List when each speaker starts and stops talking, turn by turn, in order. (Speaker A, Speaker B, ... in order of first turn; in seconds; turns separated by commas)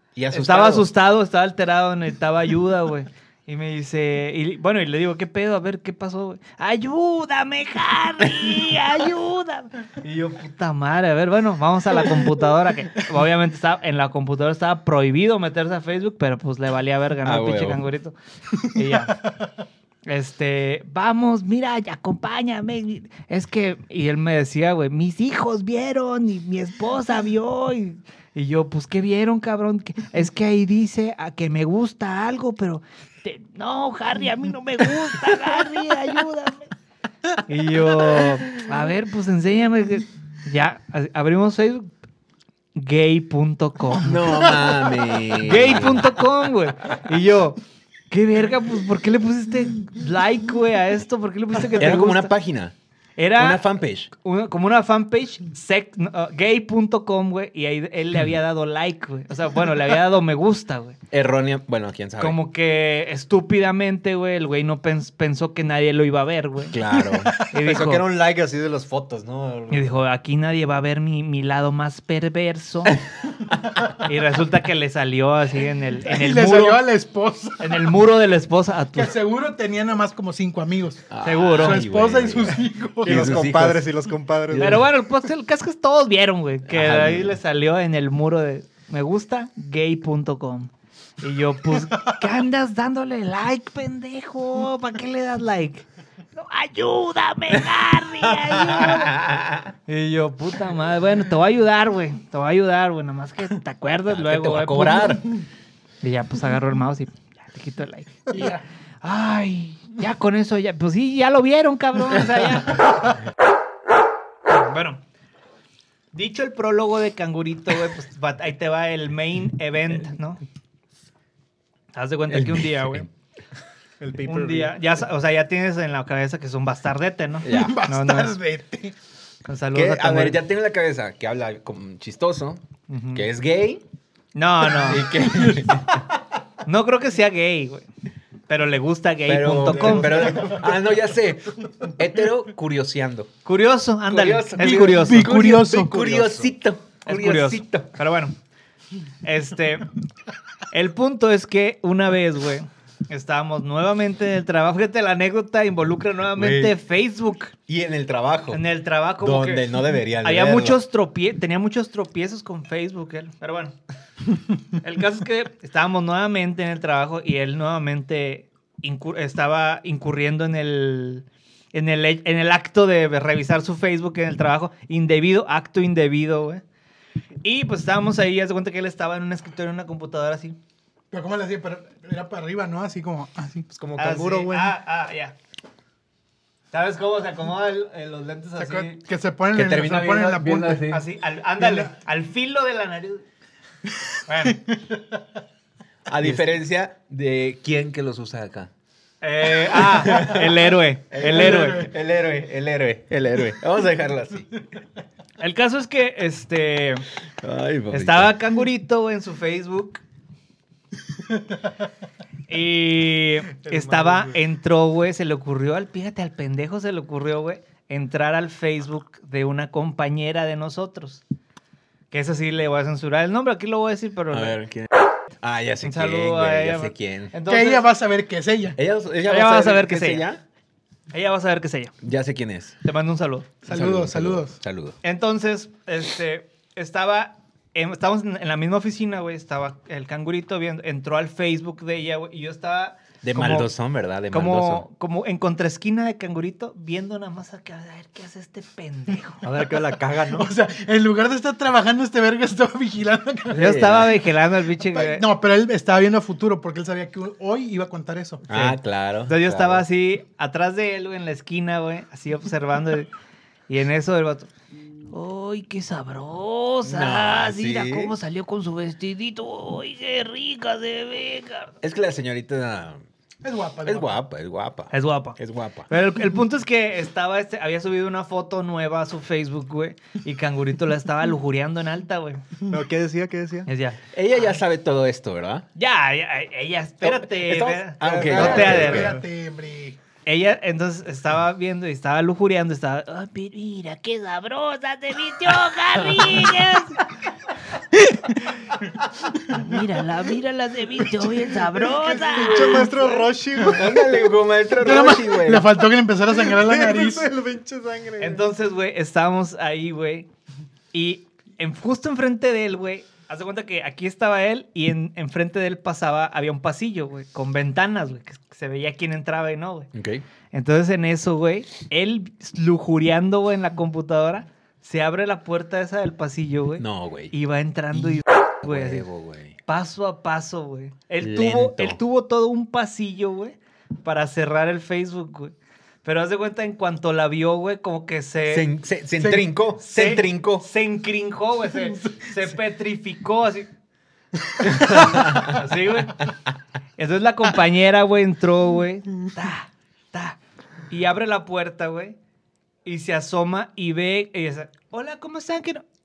Speaker A: 0.2-0.9, Speaker B: 0.3-19.2, Speaker A: 17.2-17.8, Speaker B: 20.1-36.7, Speaker B: 37.5-41.9, Speaker B: 42.8-44.5, Speaker A: 44.0-46.2, Speaker B: 45.4-47.6, Speaker B: 48.1-52.3, Speaker A: 51.7-52.8, Speaker B: 53.2-61.0, Speaker A: 53.4-54.1, Speaker A: 61.1-62.4, Speaker B: 62.2-66.8, Speaker A: 66.7-67.4, Speaker C: 66.9-67.4, Speaker B: 67.5-68.0, Speaker D: 67.6-69.9, Speaker B: 69.7-73.0, Speaker B: 74.0-76.8, Speaker C: 76.1-77.8, Speaker B: 77.6-79.1, Speaker C: 79.0-83.4, Speaker A: 81.1-83.9, Speaker B: 81.2-81.8, Speaker D: 83.0-84.8, Speaker A: 84.5-84.9, Speaker B: 84.6-90.7, Speaker A: 86.7-87.4, Speaker B: 91.2-99.2, Speaker A: 98.3-99.7, Speaker B: 99.9-105.2, Speaker A: 104.1-105.3, Speaker B: 106.0-113.2, Speaker C: 108.3-108.6, Speaker B: 114.5-115.0, Speaker B: 116.1-120.4, Speaker B: 121.9-123.1, Speaker A: 122.3-123.1, Speaker D: 124.0-124.8, Speaker B: 124.3-128.4, Speaker A: 127.4-127.8, Speaker C: 127.5-128.9, Speaker B: 129.5-130.4, Speaker A: 129.7-132.6, Speaker B: 132.9-133.3, Speaker A: 133.1-133.8, Speaker B: 134.3-135.1, Speaker A: 134.8-136.0, Speaker C: 135.1-135.7, Speaker B: 136.7-137.9, Speaker B: 138.5-140.6, Speaker A: 139.3-143.3, Speaker D: 139.7-140.7, Speaker B: 143.4-145.4, Speaker A: 144.1-147.9, Speaker C: 144.6-146.0, Speaker D: 145.7-146.5, Speaker B: 147.1-148.3, Speaker B: 149.2-149.9, Speaker B: 150.7-157.5, Speaker A: 156.3-156.8, Speaker A: 157.7-158.6, Speaker B: 158.5-163.8, Speaker A: 159.2-160.8, Speaker B: 164.7-176.6, Speaker B: 177.4-180.6, Speaker C: 181.1-183.7, Speaker D: 183.7-184.8, Speaker B: 184.0-185.3, Speaker B: 186.7-189.0, Speaker C: 188.6-190.9, Speaker A: 189.5-191.1, Speaker B: 190.9-193.2, Speaker C: 191.6-191.9, Speaker B: 194.3-194.6, Speaker C: 194.5-195.1, Speaker A: 196.1-198.7, Speaker B: 199.2-201.9, Speaker A: 199.6-204.5, Speaker C: 201.3-201.9, Speaker B: 205.4-207.1, Speaker A: 207.4-208.3, Speaker B: 207.9-210.0, Speaker B: 212.5-221.2, Speaker D: 213.6-214.4, Speaker B: 222.1-224.6, Speaker A: 224.3-227.3, Speaker B: 225.8-227.9, Speaker C: 227.5-228.8, Speaker A: 228.8-230.4, Speaker B: 229.3-230.3, Speaker B: 231.1-231.9, Speaker A: 232.0-232.8, Speaker B: 232.8-233.5, Speaker C: 233.7-234.6, Speaker A: 233.7-235.0, Speaker B: 235.0-243.7, Speaker A: 243.2-244.9, Speaker B: 244.3-249.4, Speaker D: 249.4-250.5, Speaker C: 250.3-253.8, Speaker A: 253.5-254.2, Speaker B: 253.5-255.2, Speaker C: 254.8-258.4, Speaker A: 258.5-259.9, Speaker B: 258.5-263.1, Speaker B: 263.7-264.5, Speaker B: 265.1-271.8, Speaker A: 266.8-268.1, Speaker A: 271.8-273.0, Speaker C: 273.4-274.2, Speaker A: 273.8-275.9, Speaker B: 274.9-282.4, Speaker D: 282.7-283.7, Speaker B: 283.7-284.0, Speaker A: 284.1-285.7, Speaker B: 285.8-289.1, Speaker A: 287.0-289.1, Speaker D: 288.0-289.2, Speaker C: 288.2-290.0, Speaker B: 290.3-297.0, Speaker A: 295.9-296.5, Speaker B: 299.5-302.9, Speaker D: 302.0-304.0, Speaker C: 302.5-302.9, Speaker A: 303.6-305.7, Speaker C: 304.8-307.3, Speaker D: 306.4-308.5, Speaker B: 308.2-310.3, Speaker B: 310.9-319.9, Speaker A: 319.9-320.2, Speaker B: 320.5-329.1, Speaker A: 326.8-327.3, Speaker A: 327.9-329.6, Speaker B: 329.7-338.7, Speaker A: 331.2-332.0, Speaker A: 338.5-340.7, Speaker C: 339.2-339.5, Speaker B: 339.8-343.7, Speaker A: 344.7-345.6, Speaker B: 344.8-346.3, Speaker B: 347.0-350.4, Speaker B: 350.9-352.2, Speaker B: 352.9-355.8